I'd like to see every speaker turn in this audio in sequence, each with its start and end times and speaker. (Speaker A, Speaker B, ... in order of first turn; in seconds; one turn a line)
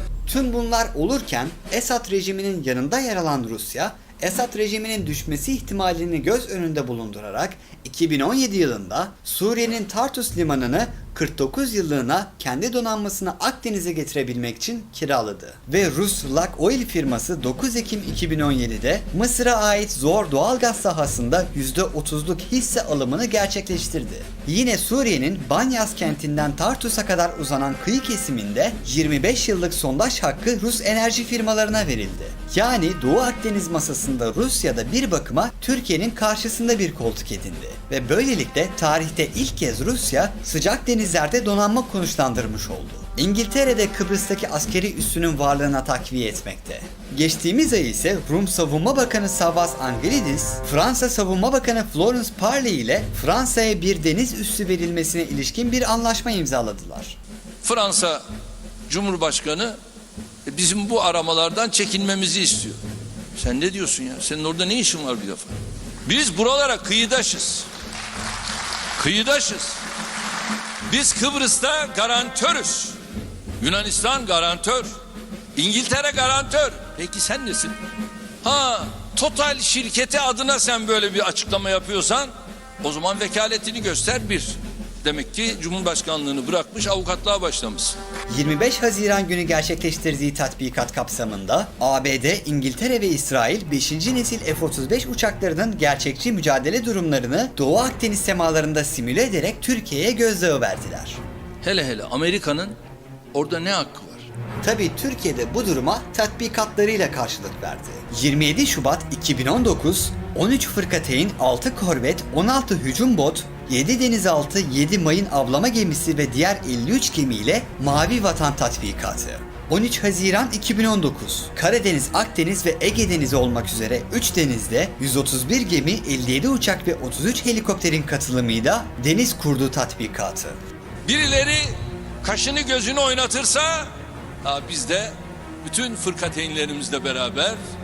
Speaker A: 0.2-57.2
Speaker B: 57.6-58.2
Speaker B: 58.9-59.8
Speaker B: 60.5-62.8
Speaker B: 63.4-67.7
Speaker B: 69.0-69.8
Speaker B: 70.9-73.0
Speaker B: 73.6-74.9
Speaker B: 75.5-77.8
Speaker B: 78.4-88.0
Speaker A: 88.3-101.2
Speaker B: 101.6-102.7
Speaker B: 103.3-104.3
Speaker A: 104.6-130.6
Speaker B: 131.1-133.9
Speaker B: 134.4-137.6